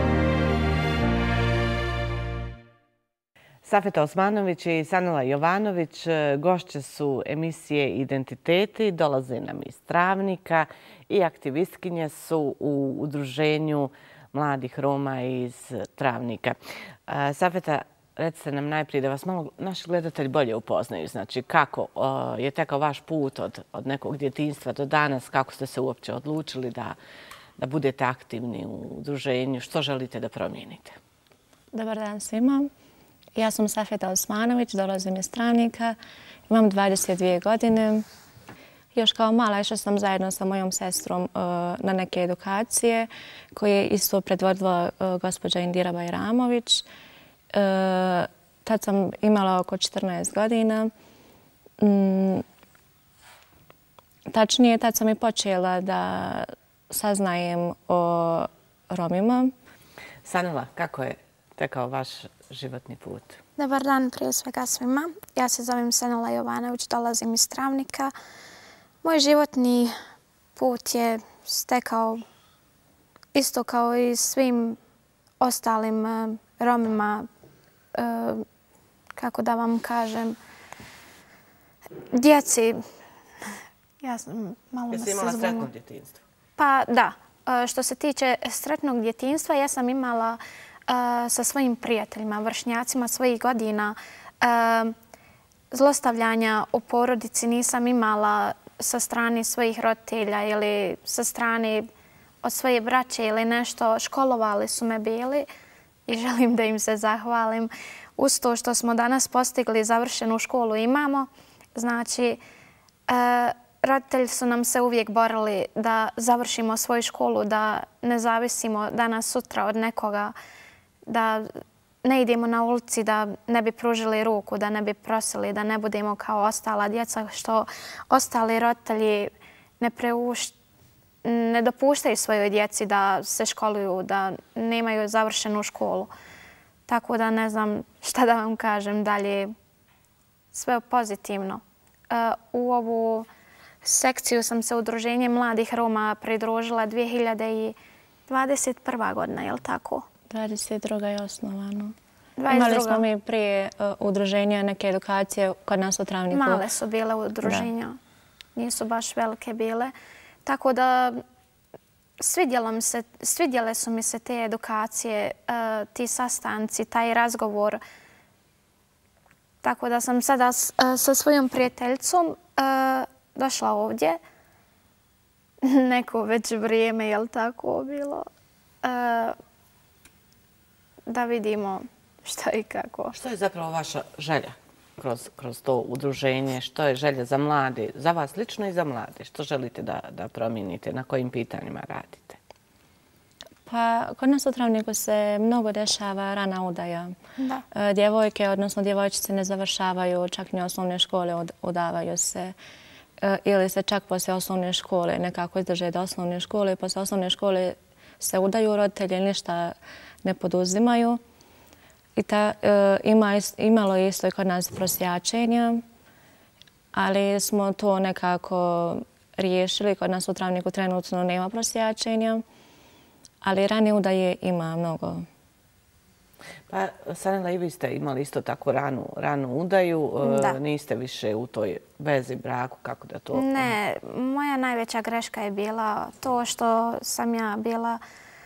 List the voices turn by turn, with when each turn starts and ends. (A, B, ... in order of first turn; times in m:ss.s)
0:03.6-0:16.6 A
0:17.1-0:27.0 A
0:27.6-0:31.0 A
0:31.7-0:32.7 B
0:33.4-0:36.0 B
0:36.5-0:38.0 B
0:39.0-0:46.8 B
0:47.5-0:50.9 B
0:51.8-0:52.4 B
0:54.3-0:59.5 B
1:00.2-1:03.4 A
1:03.6-1:08.1 C
1:09.0-1:09.9 C
1:10.6-1:12.2 C
1:13.3-1:14.8 C
1:15.4-1:17.3 C
1:17.9-1:18.4 C
1:19.2-1:20.4 C
1:22.1-1:22.8 C
1:24.0-1:25.7 C
1:24.9-1:26.2 A
1:26.6-1:35.0 C
1:35.7-1:41.9 C
1:42.4-1:45.5 C
1:46.1-1:52.4 C
1:53.1-2:00.4 C
2:01.1-2:01.5 C
2:02.0-2:10.5 C
2:11.2-2:16.1 C
2:16.9-2:19.5 C
2:20.5-2:23.3 C
2:23.8-2:27.8 C
2:28.3-2:30.1 C
2:30.3-2:32.0 B
2:32.4-2:33.1 C
2:32.5-2:36.6 B
2:36.3-2:38.0 C
2:37.4-2:37.7 B
2:38.6-2:39.9 C
2:40.4-2:41.2 C
2:42.2-2:47.8 C
2:49.6-2:54.2 C
2:55.6-2:58.3 C
2:58.8-2:59.4 C
3:01.1-3:03.2 C
3:03.1-3:12.4 A
3:13.7-3:17.2 B
3:17.4-3:17.6 C
3:17.7-3:22.6 B
3:23.2-3:31.2 B
3:32.2-3:35.8 B
3:36.9-3:42.4 B
3:43.4-3:45.3 B
3:46.7-3:53.7 A
3:50.2-3:50.6 C
3:53.3-3:58.0 C